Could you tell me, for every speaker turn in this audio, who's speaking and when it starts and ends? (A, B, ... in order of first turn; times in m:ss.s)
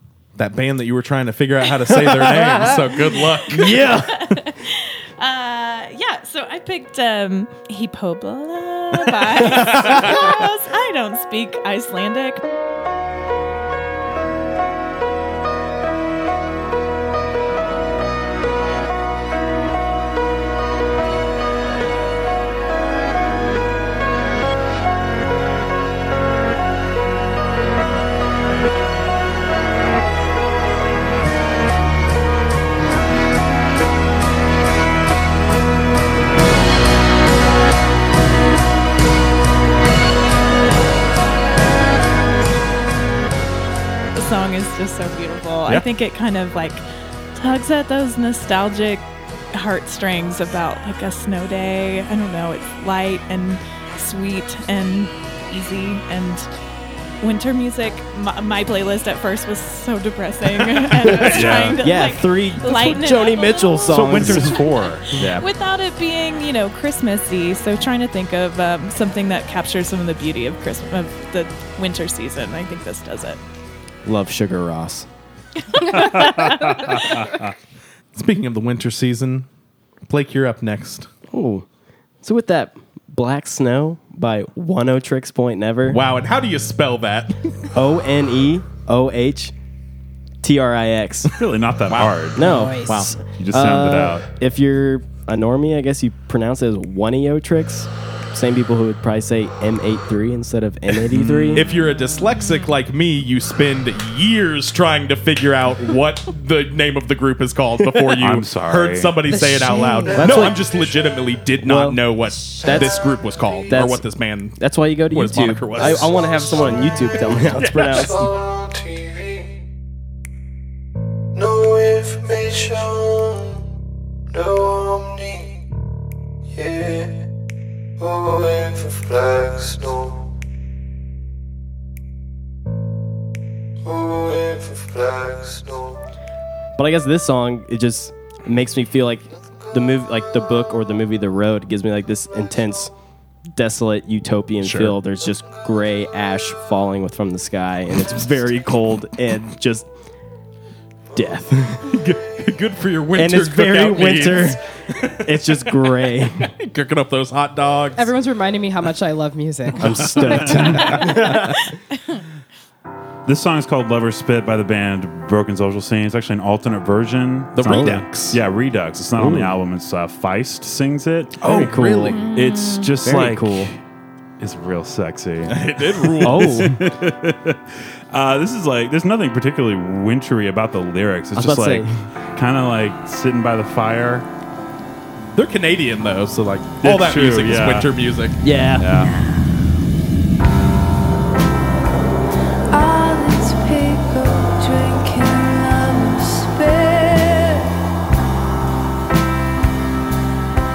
0:00.4-0:04.2 A
0:01.9-0:02.8 B
0:03.5-0:04.3 B
0:04.2-0:12.4 C
0:09.5-0:10.3 A
0:44.2-0:46.8 C
0:47.4-0:56.5 C
0:57.2-1:13.4 C
1:01.0-1:04.6 B
1:01.2-1:01.8 D
1:03.9-1:05.4 D
1:05.2-1:05.4 A
1:14.0-1:15.1 B
1:15.9-1:17.5 D
1:18.1-1:19.5 A
1:20.1-1:21.1 A
1:21.3-1:21.6 B
1:22.2-1:26.0 B
1:25.9-1:27.5 A
1:27.7-1:29.5 B
1:30.4-1:31.3 B
1:31.4-1:32.4 D
1:31.9-1:32.2 A
1:32.4-1:41.6 B
1:32.4-1:33.2 E
1:32.8-1:33.1 A
1:33.4-1:34.2 D
1:41.1-1:41.6 D
1:41.5-1:58.1 A
1:47.8-1:48.1 B
1:48.2-1:49.2 D
1:49.3-1:50.4 E
1:50.1-1:50.6 B
1:51.6-1:52.1 B
1:52.6-1:53.0 B
1:53.7-1:58.3 B
1:57.6-1:59.6 F
2:01.4-2:03.6 F
2:04.3-2:05.6 F
2:06.5-2:07.2 F
2:08.0-2:10.3 F
2:13.8-2:16.0 F
2:16.8-2:22.9 B
2:23.5-2:29.9 B
2:24.6-2:25.0 A
2:31.2-2:31.9 B
2:31.8-2:35.4 A
2:33.2-2:34.6 B
2:35.2-2:36.5 B
2:36.4-2:38.1 A
2:38.0-2:41.2 E
2:39.8-2:41.6 B
2:39.9-2:41.5 A
2:43.3-2:51.7 D
2:47.6-2:48.4 A
2:47.7-2:48.0 B
2:49.2-2:49.5 B
2:51.4-2:52.2 A
2:51.4-2:52.2 B
2:52.2-2:52.9 C
2:52.3-2:53.8 D
2:53.0-2:53.7 B
2:54.4-3:04.3 D
2:55.5-2:56.7 A
2:56.2-2:56.8 B
3:01.4-3:02.0 B
3:05.4-3:08.4 A
3:06.8-3:07.9 D
3:08.4-3:09.1 B
3:08.8-3:09.1 D
3:12.7-3:17.7 G